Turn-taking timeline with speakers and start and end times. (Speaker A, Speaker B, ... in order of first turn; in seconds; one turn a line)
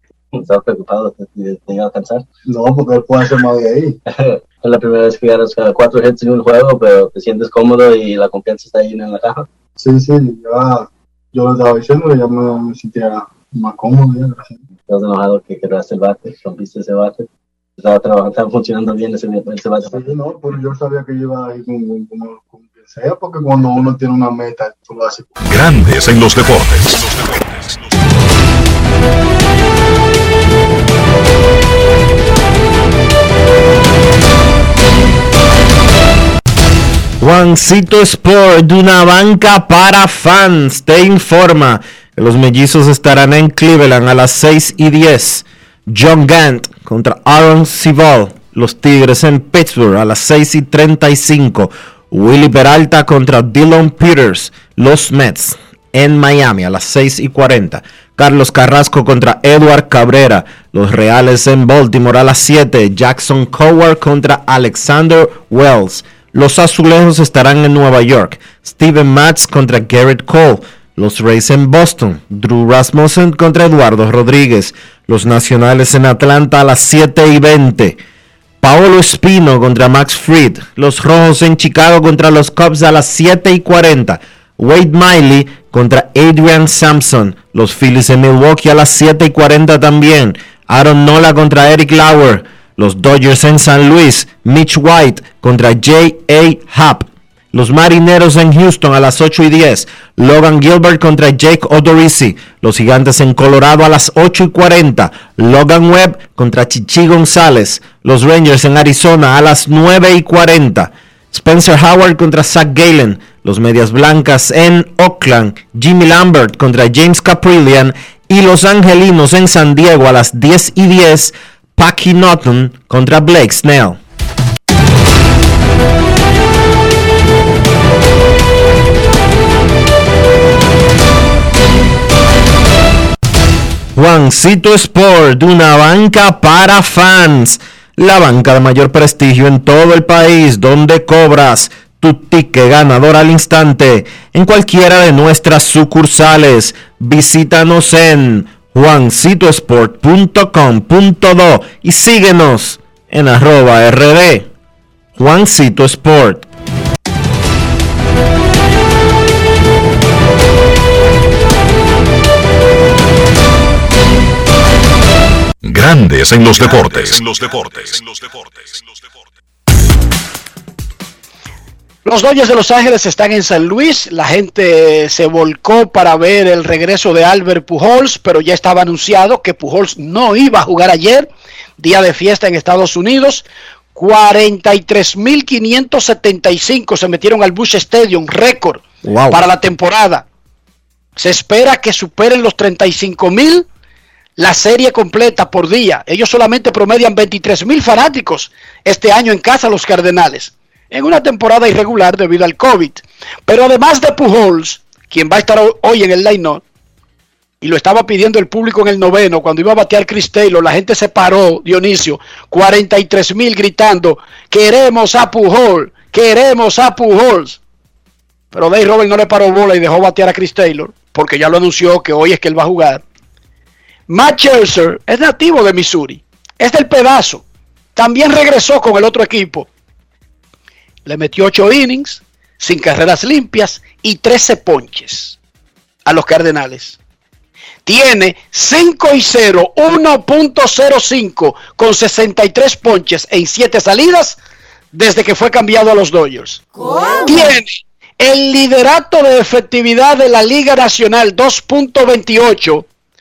Speaker A: 0.3-2.3
Speaker B: 2.5-4.0
Speaker A: 4.1-9.5
Speaker B: 9.8-14.6
Speaker A: 14.8-17.3
Speaker A: 17.8-20.1
Speaker B: 19.9-25.3
Speaker C: 25.4-27.7
Speaker D: 37.2-78.0
Speaker D: 78.6-124.0
Speaker D: 133.9-154.5
Speaker D: 155.2-156.5
Speaker C: 165.6-168.9
Speaker E: 172.0-181.3
Speaker E: 181.8-190.2
Speaker D: 189.0-189.4
Speaker E: 191.2-193.7
Speaker E: 194.4-206.6
Speaker E: 207.6-217.6
Speaker E: 218.5-223.0
Speaker E: 224.1-227.4
Speaker E: 227.9-229.7
Speaker E: 231.1-235.4
Speaker E: 236.1-237.0
Speaker E: 237.8-244.4
Speaker E: 244.9-246.6
Speaker E: 247.2-252.9